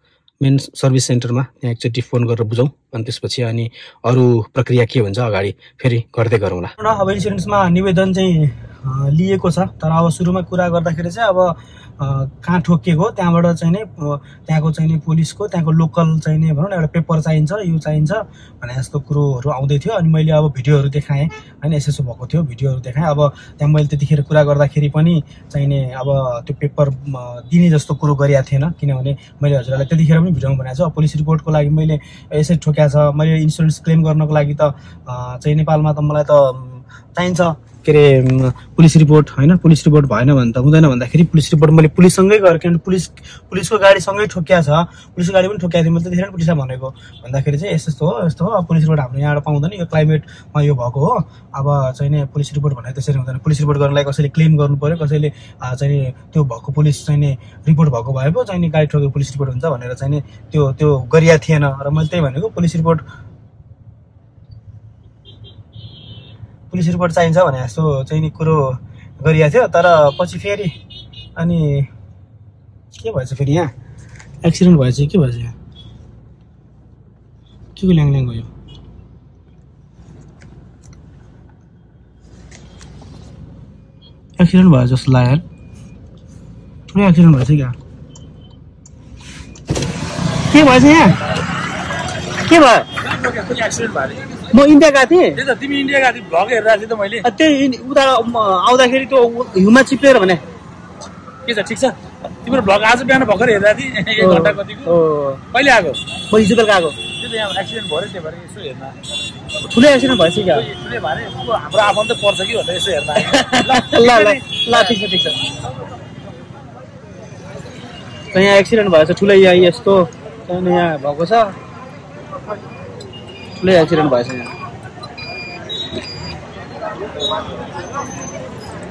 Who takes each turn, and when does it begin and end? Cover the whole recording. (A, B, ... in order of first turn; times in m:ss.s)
0:00.4-1:03.0 A
1:06.7-1:10.7 A
1:11.4-1:11.9 A
1:13.0-1:13.7 A
1:14.4-1:15.5 A
1:17.8-1:18.5 A
1:24.4-1:25.4 A
1:26.9-1:27.8 A
1:30.5-1:31.2 A
1:32.4-1:32.9 A
1:33.0-1:34.5 B
1:34.5-1:35.4 A
1:35.4-1:37.2 B
1:37.2-1:40.4 A
1:41.4-1:46.0 B
1:44.2-1:45.4 A
1:46.3-1:47.0 A
1:47.1-1:49.0 B
1:49.6-1:50.7 A
1:50.5-1:55.0 B
1:53.2-1:55.4 A
1:58.3-2:01.6 A
2:03.6-2:04.5 A